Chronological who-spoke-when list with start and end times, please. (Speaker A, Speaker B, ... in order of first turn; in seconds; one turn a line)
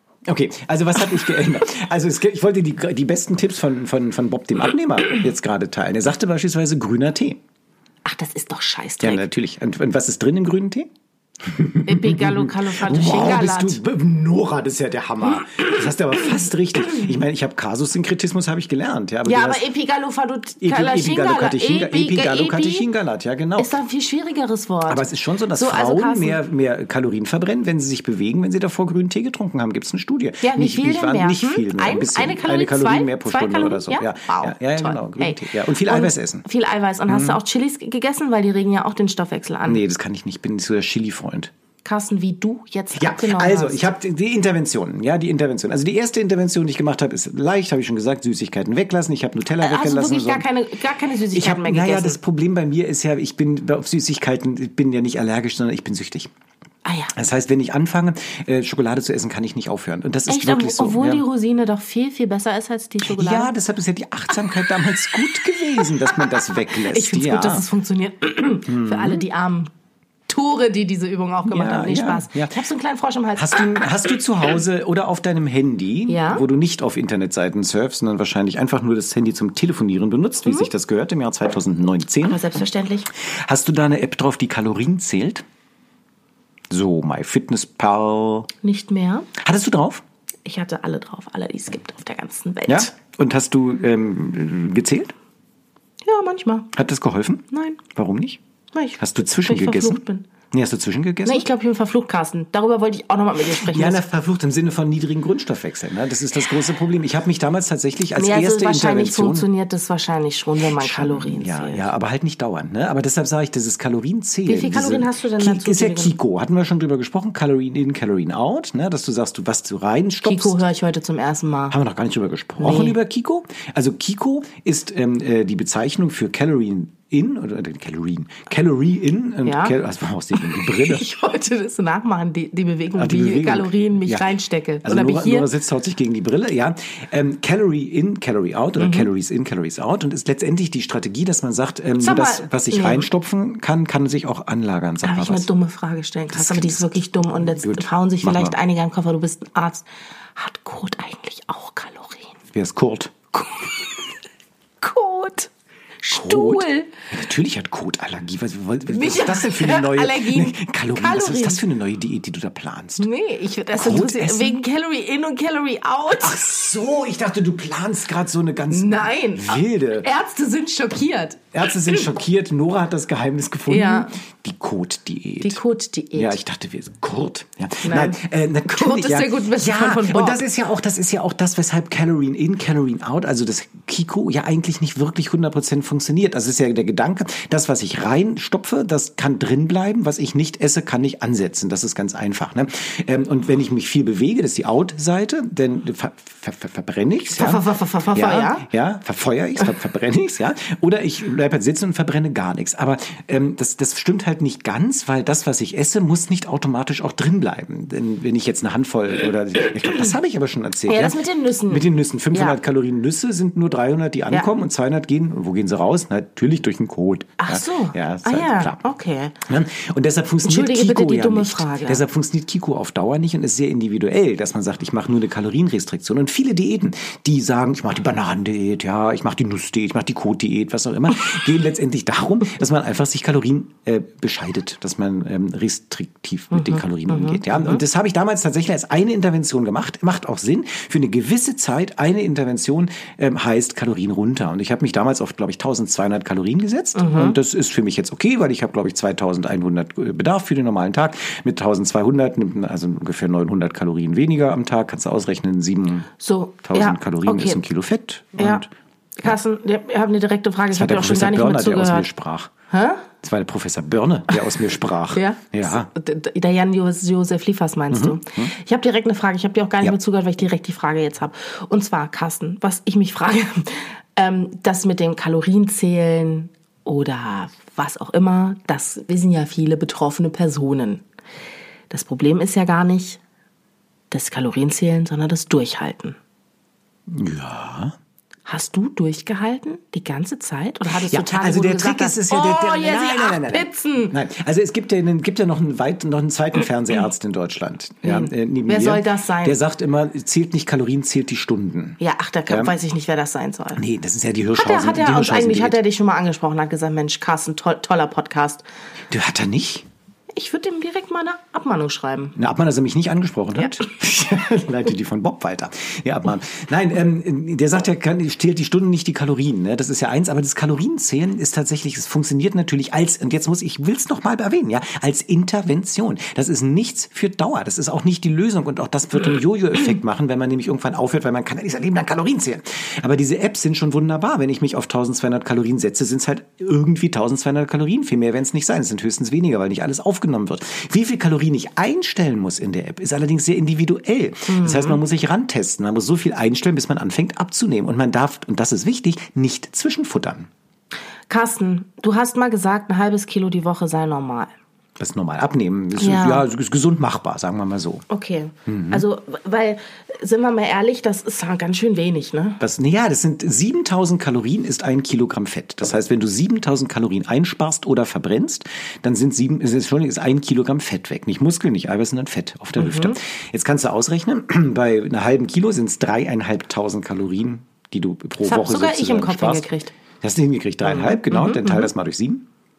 Speaker A: 0.2-7.4
Speaker B: 8.0-9.2
Speaker A: 9.0-10.9
Speaker A: 11.4-19.7
Speaker B: 11.8-13.8
Speaker B: 15.5-15.8
Speaker B: 19.2-22.9
Speaker A: 20.6-23.7
Speaker B: 23.6-26.4
Speaker A: 24.9-36.4
Speaker B: 30.4-39.8
Speaker A: 37.1-37.4
Speaker A: 39.6-41.5
Speaker B: 41.8-43.8
Speaker A: 42.9-50.5
Speaker B: 49.6-52.2
Speaker A: 51.3-56.3
Speaker B: 56.8-57.1
Speaker A: 57.1-61.2
Speaker B: 60.3-63.5
Speaker A: 63.0-67.7
Speaker B: 66.0-69.7
Speaker A: 68.7-69.2
Speaker B: 70.3-73.8
Speaker A: 71.4-72.6
Speaker A: 73.3-82.4
Speaker B: 76.1-76.4
Speaker B: 82.2-83.1
Speaker A: 83.1-85.4
Speaker A: 86.7-88.5
Speaker B: 88.6-89.3
Speaker A: 89.3-90.0
Speaker B: 90.4-92.9
Speaker A: 92.7-95.1
Speaker B: 96.0-96.7
Speaker A: 96.7-98.4
Speaker B: 97.5-97.8
Speaker B: 98.7-100.2
Speaker A: 99.0-101.5
Speaker B: 101.2-104.0
Speaker A: 103.5-109.5
Speaker B: 108.2-111.9
Speaker A: 110.6-120.6
Speaker B: 114.5-116.2
Speaker B: 120.2-121.8
Speaker A: 121.7-131.1
Speaker B: 122.6-123.0
Speaker B: 129.4-129.8
Speaker B: 130.3-135.5
Speaker A: 132.9-134.2
Speaker A: 134.8-145.5
Speaker B: 138.8-139.1
Speaker B: 142.0-143.1
Speaker B: 145.0-152.4
Speaker A: 146.3-148.6
Speaker A: 152.5-153.1
Speaker B: 153.3-153.7
Speaker B: 154.8-155.5
Speaker B: 156.0-156.9
Speaker A: 156.1-163.1
Speaker B: 158.9-161.6
Speaker B: 163.0-166.6
Speaker A: 163.7-164.6
Speaker A: 166.2-170.1
Speaker B: 168.7-172.1
Speaker A: 171.5-175.6
Speaker B: 173.7-174.2
Speaker B: 175.4-176.4
Speaker A: 176.1-218.8
Speaker B: 177.8-180.4
Speaker B: 197.3-198.7
Speaker B: 210.9-212.6
Speaker B: 217.4-219.4
Speaker A: 219.4-256.1
Speaker B: 220.4-222.0
Speaker B: 236.5-237.8
Speaker B: 246.9-247.4
Speaker B: 256.2-257.6
Speaker A: 256.6-258.7
Speaker B: 258.4-258.6
Speaker B: 259.2-262.1
Speaker A: 260.7-262.5
Speaker B: 262.7-263.1
Speaker A: 263.2-265.9
Speaker B: 265.1-281.0
Speaker A: 267.9-268.5
Speaker B: 281.9-283.2
Speaker B: 284.1-286.2
Speaker A: 287.1-287.9
Speaker B: 288.4-294.1
Speaker A: 291.0-302.7
Speaker B: 298.0-299.6
Speaker B: 302.0-303.8
Speaker A: 303.8-305.8
Speaker B: 304.5-308.6
Speaker A: 309.1-309.9
Speaker B: 310.3-312.4
Speaker A: 312.3-350.5
Speaker B: 344.5-345.0
Speaker B: 351.3-354.5
Speaker A: 355.0-358.0
Speaker B: 356.0-356.4
Speaker B: 358.1-362.6
Speaker A: 358.6-359.0
Speaker A: 362.6-379.6
Speaker B: 372.8-373.1
Speaker B: 378.4-379.9
Speaker A: 380.2-382.4
Speaker B: 380.8-381.9